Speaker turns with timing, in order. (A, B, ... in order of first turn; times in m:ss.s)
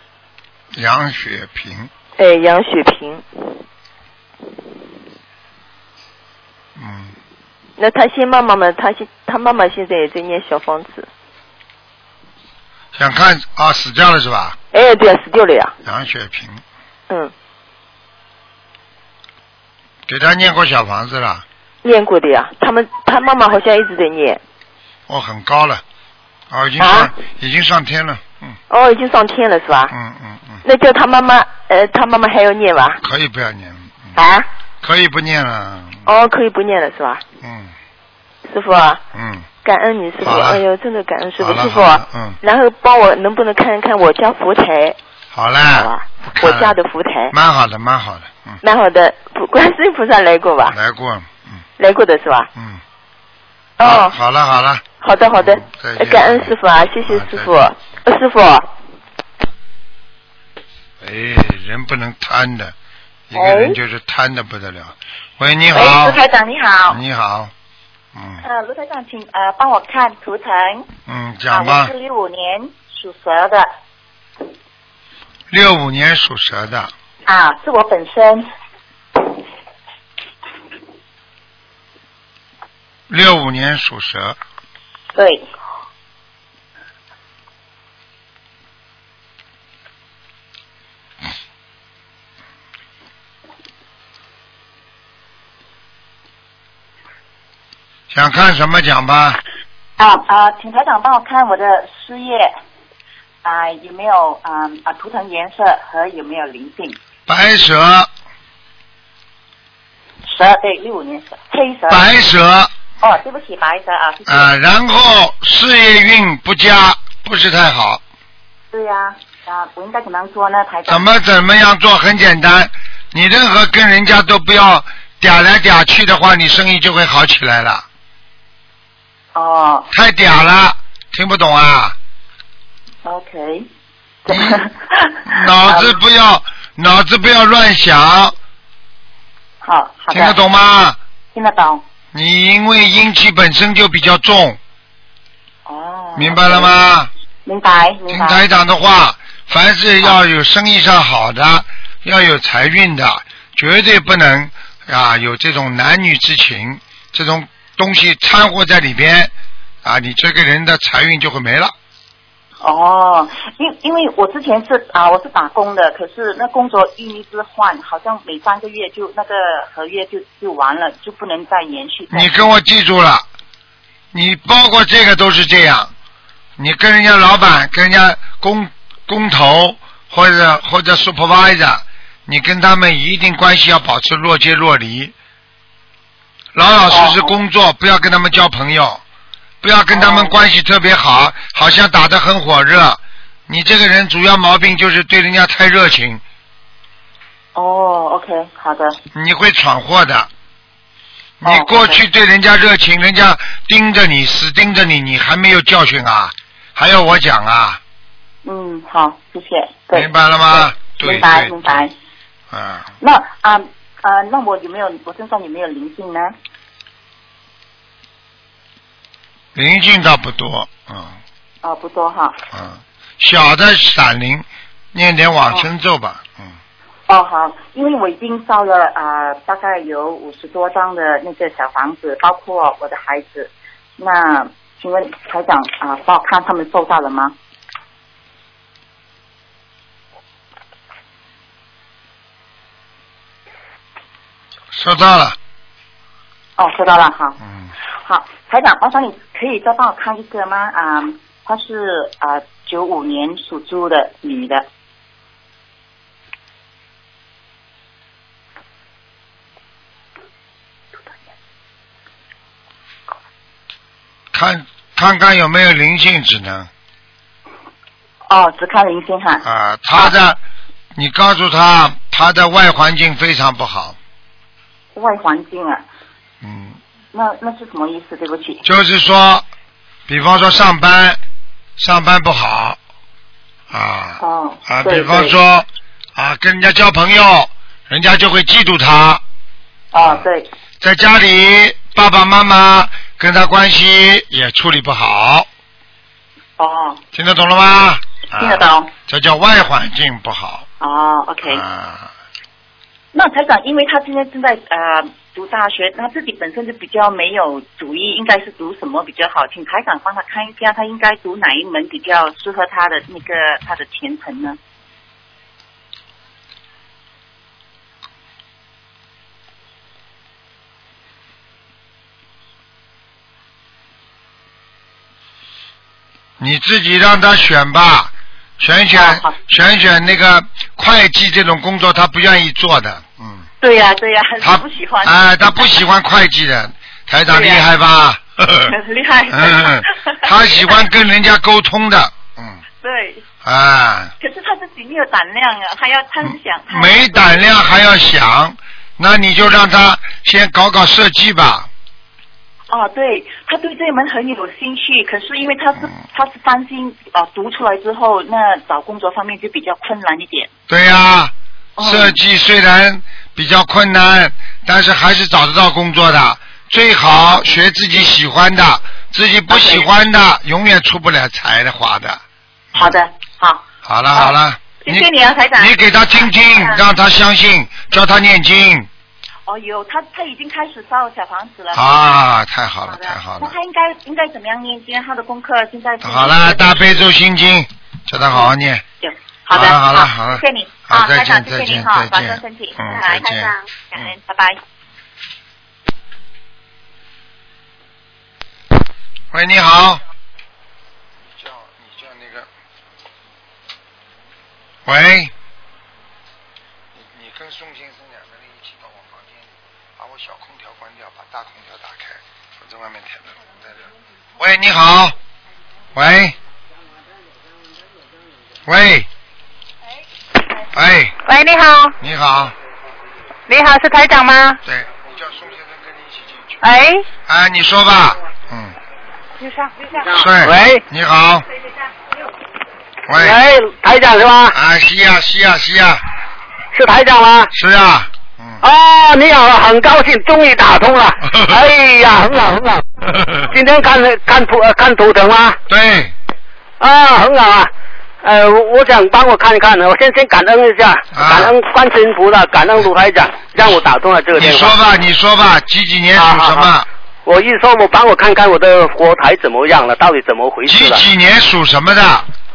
0:00.7-0:01.9 A
0:02.2-0:03.6 B
0:06.8-0:07.1 A
0:07.8-0:11.1 B
0:12.9-0:14.6 A
0:14.7-0:15.8 B
0:15.8-0:16.6 A
0:20.1-0:21.4 A
0:21.8-0:24.4 B
0:25.1-0:25.8 A
0:26.5-0:28.6 A
0:26.8-0:27.1 B
0:28.7-0:29.9 B
0:29.9-0:30.6 A
0:30.6-0:33.0 B
0:33.0-0:34.2 A
0:34.2-0:34.5 B
0:34.8-0:36.1 A
0:36.0-0:37.2 B
0:37.4-0:37.7 A
0:38.5-0:39.0 B
0:39.1-0:39.5 A
0:39.6-0:45.0 B
0:40.2-0:40.6 A
0:41.4-0:42.4 A
0:45.3-0:46.8 A
0:45.7-0:47.3 B
0:47.3-0:48.6 A
0:48.6-0:50.8 B
0:50.7-0:51.6 A
0:51.8-0:52.5 B
0:52.6-0:52.8 A
0:53.8-0:54.2 B
0:53.8-0:54.8 A
0:55.0-0:58.7 B
0:55.4-0:56.5 A
0:57.1-0:57.5 A
1:01.0-1:02.7 A
1:03.3-1:06.2 A
1:03.4-1:03.7 C
1:05.7-1:07.0 C
1:06.9-1:07.5 A
1:08.2-1:08.4 A
1:08.4-1:10.9 C
1:11.1-1:11.9 A
1:11.5-1:13.7 C
1:15.5-1:16.9 A
1:17.3-1:18.5 C
1:23.1-1:24.4 A
1:25.2-1:25.5 C
1:38.1-1:39.4 A
1:40.0-1:42.5 C
1:43.4-1:47.0 C
1:47.3-1:48.1 A
1:50.2-1:52.1 C
1:51.9-1:52.7 A
1:53.0-1:54.5 C
1:54.3-1:58.0 A
1:58.7-2:01.0 C
2:00.9-2:07.8 A
2:09.3-2:09.9 C
2:09.9-2:12.0 A
2:13.0-2:13.7 C
2:14.3-2:16.0 C
2:14.3-2:14.6 A
2:15.3-2:18.4 A
2:19.6-2:20.4 C
2:20.1-2:21.0 A
2:21.3-2:21.8 C
2:22.1-2:24.6 A
2:25.7-2:26.7 C
2:26.2-2:27.1 A
2:27.5-2:28.4 C
2:28.1-2:39.3 A
2:39.8-2:41.7 A
2:42.6-2:52.4 C
2:52.1-2:53.3 A
2:54.1-2:55.9 A
2:56.6-3:05.1 A
3:06.5-3:09.0 A
3:06.9-3:07.3 C
3:09.6-3:16.2 A
3:09.9-3:10.4 C
3:17.6-3:19.0 C
3:19.1-3:20.3 A
3:21.4-3:27.8 A
3:21.4-3:22.0 C
3:28.4-3:31.9 C
3:29.9-3:31.9 A
3:32.5-3:32.9 A
3:33.0-3:36.3 C
3:39.6-3:41.2 A
3:41.6-3:42.4 C
3:42.5-3:46.6 A
3:47.1-3:57.4 C
4:04.7-4:05.4 A
4:06.6-4:07.4 C
4:08.0-4:14.6 C
4:24.3-4:26.7 A
4:28.3-4:29.4 C
4:29.4-4:30.4 A
4:31.0-4:34.0 A
4:34.9-4:35.8 C
4:36.4-4:36.8 A
4:37.1-4:38.6 C
4:38.6-4:39.5 A
4:40.1-4:41.2 A
4:41.8-4:42.8 A
4:43.7-4:49.2 A
4:44.2-4:45.4 C
4:49.9-4:50.5 C
4:50.0-4:50.2 A
4:50.8-4:55.5 A
4:56.6-4:57.0 C
4:57.1-5:00.6 A
4:58.4-4:58.9 C
5:00.8-5:01.6 C
5:01.4-5:02.1 A
5:03.1-5:14.6 C
5:26.4-5:33.5 A
5:28.9-5:29.4 C
5:33.6-5:35.8 C
5:34.4-5:38.7 A
5:37.3-5:37.7 C
5:38.7-5:40.8 C
5:39.3-5:42.6 A
5:42.8-5:43.2 C
5:43.4-5:44.1 A
5:44.2-5:47.5 C
5:46.2-5:51.7 A
5:52.7-6:00.5 C
6:00.7-6:12.2 A
6:01.8-6:02.2 C
6:09.5-6:09.9 C
6:12.8-6:16.8 C
6:13.8-6:18.9 A
6:19.5-6:22.0 C
6:21.7-6:23.5 A
6:22.9-6:27.1 C
6:26.0-6:28.8 A
6:28.3-6:34.6 C
6:29.5-6:34.1 A
6:39.3-6:40.0 A
6:41.2-6:42.5 A
6:44.9-6:45.3 A
6:46.9-6:53.8 A
6:54.4-6:55.2 A
6:56.0-6:56.4 A
6:58.7-6:59.1 A
7:00.7-7:01.2 A
7:01.2-7:02.0 D
7:02.0-7:02.6 A
7:03.5-7:04.6 D
7:04.6-7:06.6 A
7:06.6-7:07.1 D
7:07.2-7:08.8 A
7:09.4-7:10.0 D
7:10.1-7:11.4 A
7:10.4-7:10.8 E
7:13.1-7:13.4 A
7:13.2-7:14.6 E
7:14.5-7:16.0 A
7:16.7-7:17.5 E
7:17.5-7:18.6 A
7:18.6-7:22.8 E
7:23.4-7:25.6 E
7:25.7-7:26.1 A
7:26.8-7:27.7 E
7:28.2-7:34.8 E
7:31.1-7:31.5 A
7:34.4-7:36.9 A
7:36.2-7:36.7 E
7:37.2-7:41.0 E
7:40.7-7:42.3 A